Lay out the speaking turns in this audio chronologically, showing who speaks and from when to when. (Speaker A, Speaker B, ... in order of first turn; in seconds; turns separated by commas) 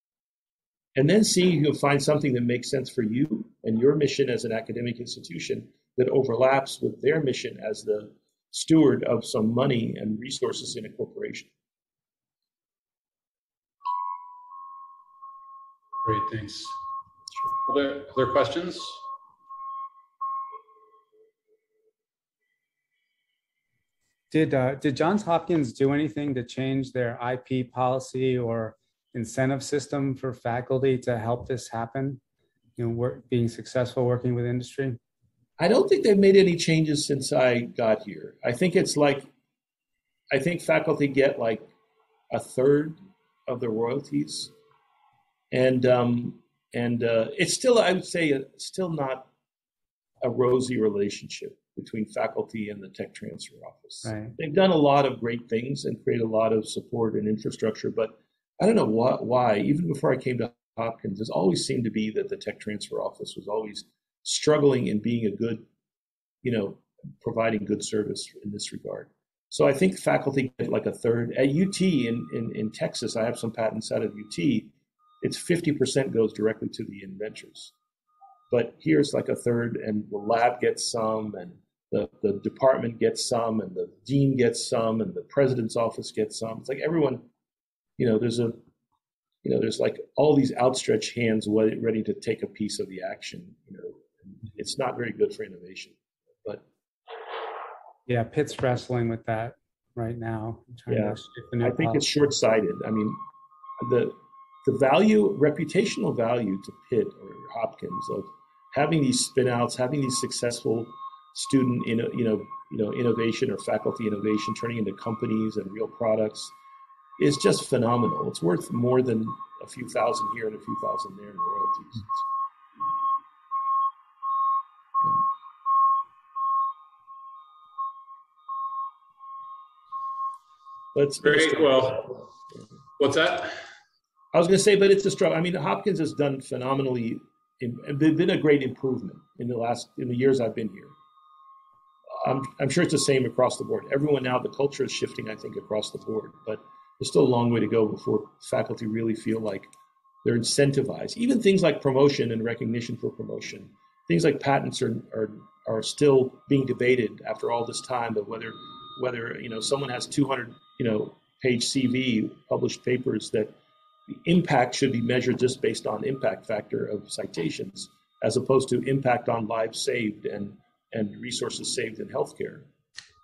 Speaker A: 1.0-11.5, Speaker B: 16.0-16.8, Speaker B: 17.6-19.0, Speaker C: 24.3-32.2, Speaker C: 32.8-35.0, Speaker A: 35.6-39.3, Speaker A: 40.3-41.7, Speaker A: 42.3-44.5, Speaker A: 45.5-49.3, Speaker A: 50.2-65.7, Speaker C: 54.0-54.3, Speaker A: 66.4-77.7, Speaker A: 78.5-87.2, Speaker A: 88.0-88.6, Speaker A: 89.4-96.6, Speaker C: 98.1-102.1, Speaker A: 100.9-103.2, Speaker A: 103.8-116.5, Speaker A: 117.2-122.2, Speaker A: 130.9-132.3, Speaker B: 131.2-132.0, Speaker B: 133.0-133.5, Speaker A: 134.3-141.0, Speaker A: 142.2-149.7, Speaker A: 150.2-163.5, Speaker A: 164.1-172.7